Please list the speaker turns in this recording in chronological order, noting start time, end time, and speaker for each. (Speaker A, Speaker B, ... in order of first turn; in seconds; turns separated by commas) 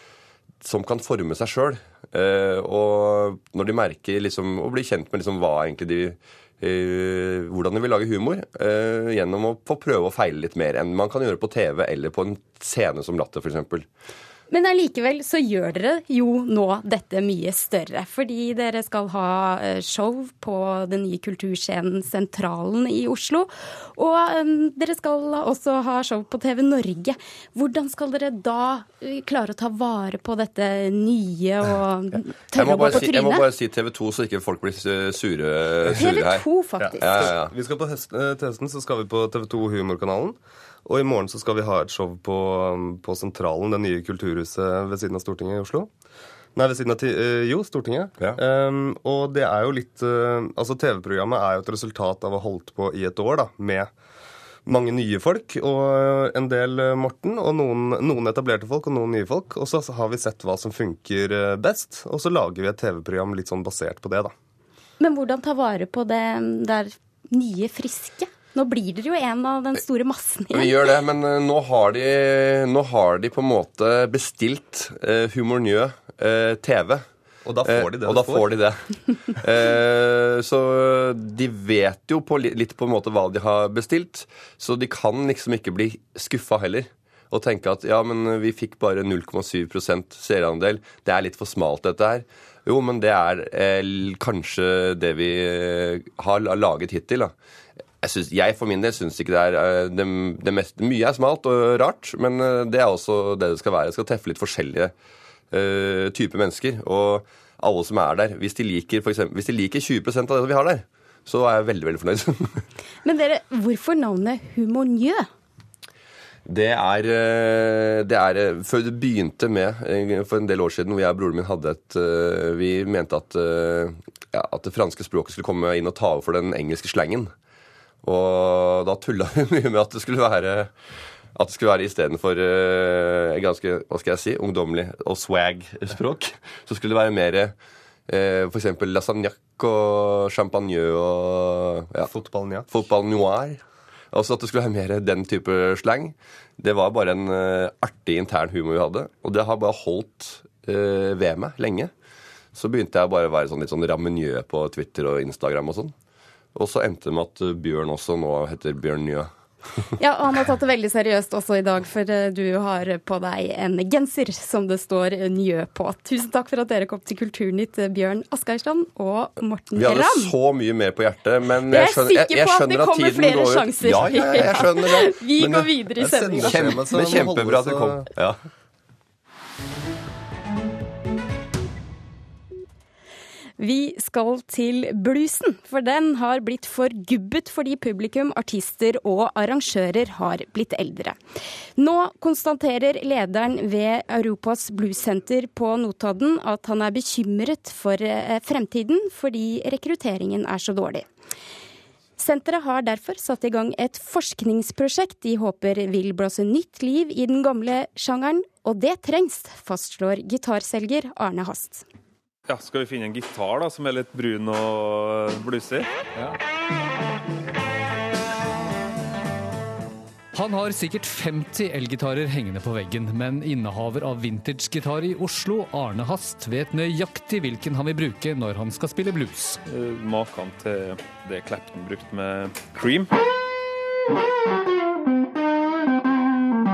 Speaker A: 0.6-13.9, Speaker B: 14.5-33.5, Speaker A: 32.5-36.5, Speaker B: 36.0-37.3, Speaker C: 36.8-45.9, Speaker A: 37.0-37.5, Speaker C: 46.5-53.9, Speaker C: 54.6-64.3, Speaker B: 65.0-70.9, Speaker A: 70.5-77.0, Speaker C: 77.4-78.5, Speaker A: 77.6-97.3, Speaker A: 98.0-104.9, Speaker A: 105.5-112.6, Speaker B: 113.0-115.2, Speaker A: 116.5-127.3, Speaker A: 128.0-130.7, Speaker A: 131.3-137.5, Speaker A: 138.1-142.1, Speaker C: 142.0-142.7, Speaker A: 142.7-143.6, Speaker A: 144.1-151.9, Speaker A: 152.5-155.9, Speaker A: 156.5-159.3, Speaker B: 160.0-170.3, Speaker A: 169.7-178.4, Speaker B: 171.7-177.3, Speaker C: 176.0-178.1, Speaker B: 183.6-191.2, Speaker B: 191.8-201.1, Speaker B: 202.2-211.8, Speaker D: 212.5-215.9, Speaker E: 220.3-229.6, Speaker D: 229.7-233.1